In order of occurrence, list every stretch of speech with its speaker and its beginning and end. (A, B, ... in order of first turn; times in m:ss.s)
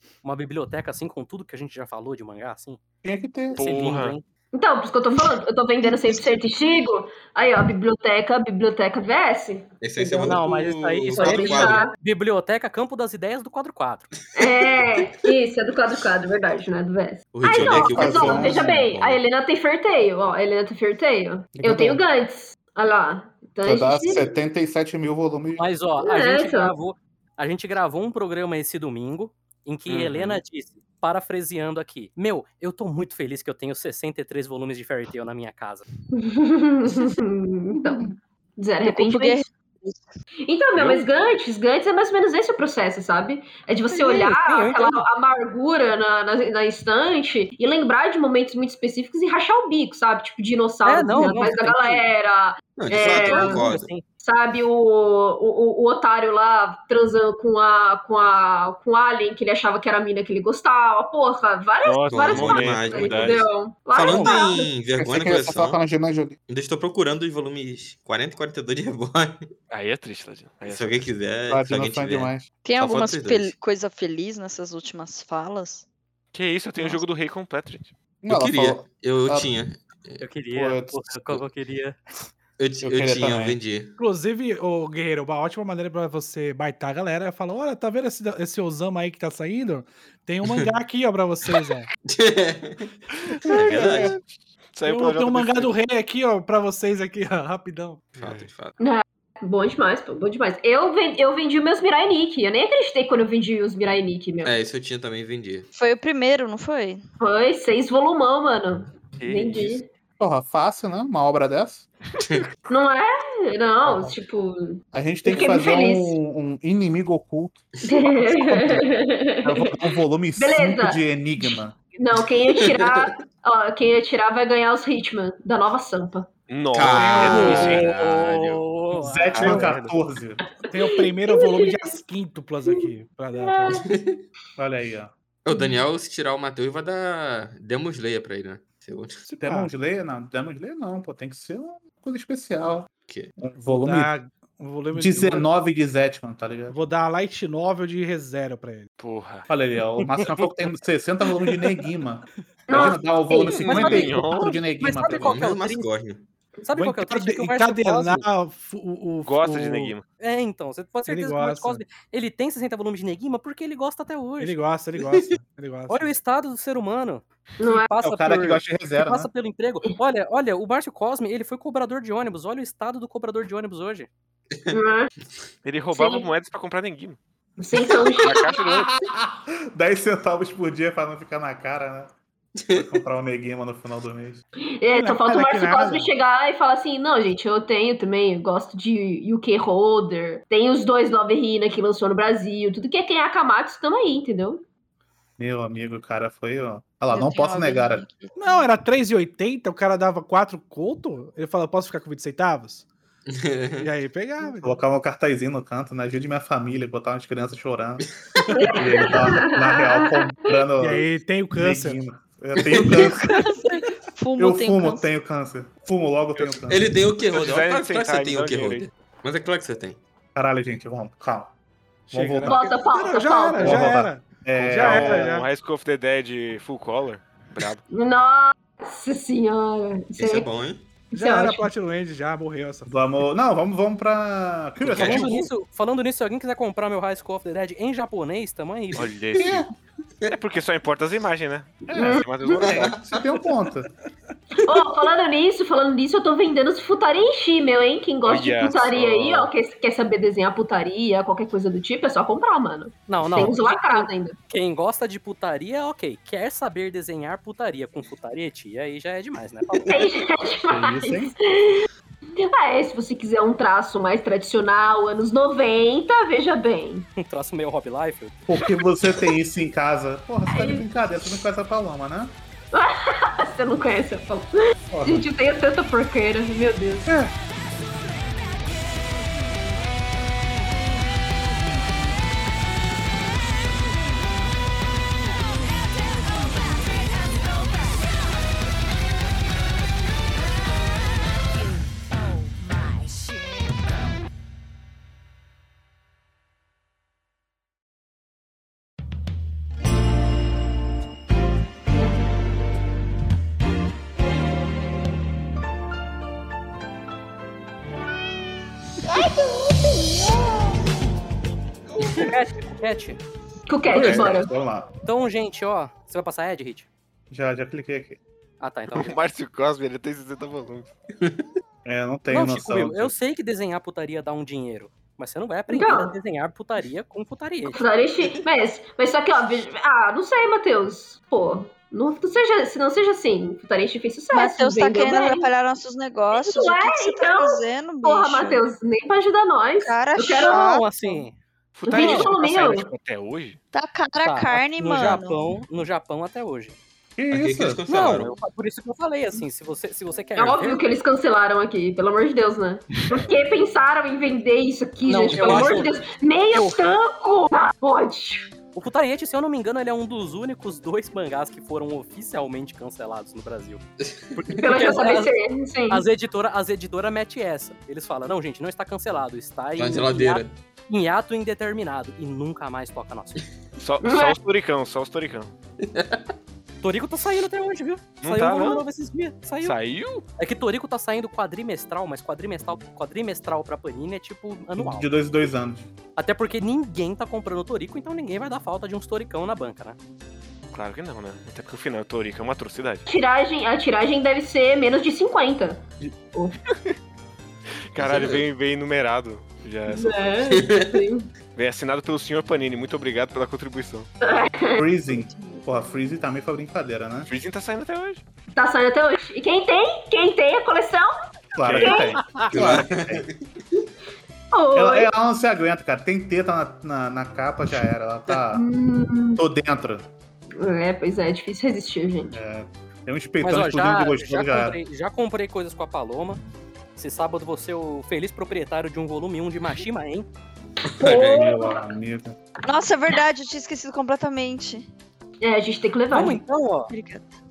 0:00.2-0:02.8 A
0:03.0-0:03.6 B
0:03.5-0:04.2 A
0:03.6-0:04.2 C
0:04.5-0:10.4 D
0:09.8-0:11.9 E
0:10.2-0:14.1 A
0:11.2-0:11.9 D
0:14.4-0:24.3 D
0:17.3-0:19.2 E
0:17.6-0:18.8 B
0:21.6-0:22.0 B
0:23.6-0:25.7 B
0:25.6-0:35.9 A
0:26.0-0:26.7 D
0:29.9-0:30.4 C
0:36.1-0:39.4 D
0:38.8-0:40.1 F
0:40.4-0:53.6 D
0:43.9-0:45.0 A
0:50.8-0:52.0 A
0:52.8-0:53.9 E
0:52.9-0:54.0 A
0:54.2-1:04.7 D
1:01.8-1:03.4 C
1:02.1-1:05.8 E
1:04.9-1:06.4 B
1:06.5-1:09.4 E
1:09.7-1:11.0 C
1:10.6-1:13.5 E
1:11.5-1:12.5 B
1:12.6-1:15.8 F
1:16.3-1:17.9 C
1:18.2-1:19.5 B
1:18.3-1:20.2 E
1:20.2-1:22.0 A
1:20.5-1:21.4 B
1:22.6-1:23.9 E
1:22.8-1:23.6 B
1:24.0-1:31.9 G
1:32.1-1:32.9 E
1:33.5-1:34.2 E
1:33.5-1:35.7 C
1:33.6-1:34.1 B
1:34.8-1:38.0 G
1:38.1-1:38.8 E
1:38.2-1:38.5 C
1:38.8-1:44.6 D
1:44.4-1:45.7 E
1:45.7-1:47.0 F
1:47.2-1:49.9 D
1:49.2-1:49.8 C
1:50.2-1:51.9 B
1:52.7-1:56.1 D
1:53.8-1:54.1 B
1:54.9-1:57.6 B
1:57.8-1:59.8 D
1:58.2-2:01.8 B
2:00.4-2:06.3 D
2:02.6-2:03.1 E
2:06.5-2:08.6 C
2:06.7-2:07.9 E
2:06.9-2:07.8 G
2:07.2-2:09.5 A
2:09.0-2:10.4 B
2:09.0-2:09.8 G
2:09.3-2:09.9 C
2:10.7-2:13.9 G
2:11.3-2:11.8 D
2:13.4-2:13.8 D
2:13.8-2:14.2 E
2:14.6-2:15.1 B
2:15.4-2:19.2 E
2:15.5-2:15.8 D
2:19.2-2:19.7 G
2:19.4-2:24.1 B
2:23.7-2:25.5 G
2:24.9-2:26.8 B
2:26.7-2:28.9 G
2:29.0-2:29.5 C
2:29.5-2:35.4 B
2:32.7-2:34.2 D
2:33.5-2:34.6 C
2:33.7-2:34.1 A
2:34.8-2:35.9 A
2:35.2-2:36.3 E
2:36.6-2:38.3 A
2:36.7-2:39.9 G
2:39.2-2:40.0 C
2:40.2-2:44.6 A
2:41.0-2:41.8 G
2:44.4-2:46.1 G
2:45.0-2:45.2 E
2:45.9-2:54.1 A
2:47.6-2:47.9 D
2:48.0-2:49.3 B
2:54.7-2:55.1 D
2:55.6-2:57.2 C
2:55.9-2:56.3 D
2:57.6-2:58.6 D
2:58.2-2:59.0 C
2:58.4-3:02.1 B
3:02.6-3:03.0 E
3:02.7-3:04.4 B
3:04.8-3:14.6 D
3:04.9-3:06.1 G
3:15.4-3:18.0 B
3:17.1-3:18.7 F
3:18.4-3:22.9 G
3:23.3-3:23.9 E
3:23.8-3:24.8 G
3:24.6-3:33.3 B
3:28.5-3:30.3 D
3:30.8-3:32.0 G
3:32.6-3:32.8 E
3:32.9-3:35.1 F
3:34.4-3:36.9 B
3:36.7-3:40.0 E
3:37.3-3:38.9 C
3:40.3-3:41.5 B
3:42.1-3:45.5 G
3:42.1-3:42.7 B
3:42.4-3:44.0 D
3:43.6-3:45.4 B
3:44.8-3:47.8 C
3:47.9-3:50.5 D
3:50.2-3:50.9 E
3:51.1-3:51.7 D
3:51.1-3:52.9 G
3:52.9-3:55.4 B
3:54.8-3:55.4 E
3:55.0-3:59.1 A
3:58.9-3:59.7 C
3:59.4-3:59.7 B
4:00.3-4:03.0 C
4:01.9-4:03.9 B
4:02.0-4:02.5 D
4:02.6-4:03.0 E
4:04.6-4:14.3 D
4:08.2-4:09.5 C
4:13.1-4:20.1 A
4:19.9-4:27.1 D
4:20.7-4:21.3 B
4:27.2-4:28.4 A
4:28.5-4:32.3 B
4:30.5-4:30.9 D
4:32.7-4:37.1 D
4:34.9-4:35.3 B
4:37.1-4:37.3 G
5:12.0-5:12.3 E
5:12.1-5:13.2 A
5:13.7-5:14.5 D
5:13.9-5:14.9 B
5:15.0-5:16.9 A
5:17.3-5:18.2 B
5:18.6-5:19.1 A
5:18.9-5:20.9 C
5:21.8-5:23.1 B
5:22.3-5:27.8 A
5:25.7-5:26.1 D
5:27.7-5:35.5 D
5:34.3-5:38.7 F
5:36.3-5:40.6 D
5:39.8-5:40.8 F
5:40.4-5:41.4 A
5:41.7-5:43.6 C
5:41.9-5:42.9 D
5:41.9-5:42.3 A
5:43.7-5:45.4 F
5:44.2-5:46.8 A
5:47.2-5:47.8 B
5:47.3-5:48.4 E
5:47.9-5:50.8 A
5:50.4-5:58.5 D
5:55.0-5:56.0 A
5:55.3-5:55.9 E
5:56.5-5:56.9 A
5:58.7-6:05.3 A
6:04.0-6:04.5 E
6:04.6-6:06.0 D
6:05.9-6:13.4 A
6:09.8-6:10.5 E
6:13.8-6:15.5 C
6:14.0-6:14.4 D
6:15.8-6:16.3 E
6:16.8-6:19.8 A
6:18.2-6:18.8 C
6:19.6-6:20.2 C
6:20.4-6:25.1 A
6:24.8-6:25.9 B
6:26.2-6:30.0 A
6:30.7-6:33.0 C
6:33.1-6:36.6 D
6:37.9-6:40.4 C
6:38.0-6:38.5 E
6:39.9-6:41.3 D
6:40.5-6:41.0 E
6:41.6-6:44.1 C
6:44.2-6:44.9 D
6:44.8-6:47.3 B
6:45.3-6:45.6 F
6:47.3-6:48.2 C
6:48.5-6:51.1 D
6:51.5-6:53.3 B
6:51.6-6:52.0 C
6:51.8-6:52.2 D
6:52.5-6:53.5 E
6:54.5-6:55.1 D
6:54.7-6:58.7 B
6:58.5-6:59.4 D
6:59.4-7:00.1 B
7:00.6-7:02.4 D
7:02.3-7:04.8 B
7:03.4-7:06.4 A
7:07.0-7:10.3 A
7:11.0-7:11.8 D
7:11.0-7:11.4 E
7:11.1-7:12.4 B
7:12.6-7:14.9 F
7:15.4-7:16.4 D
7:16.1-7:16.9 A
7:16.9-7:17.3 F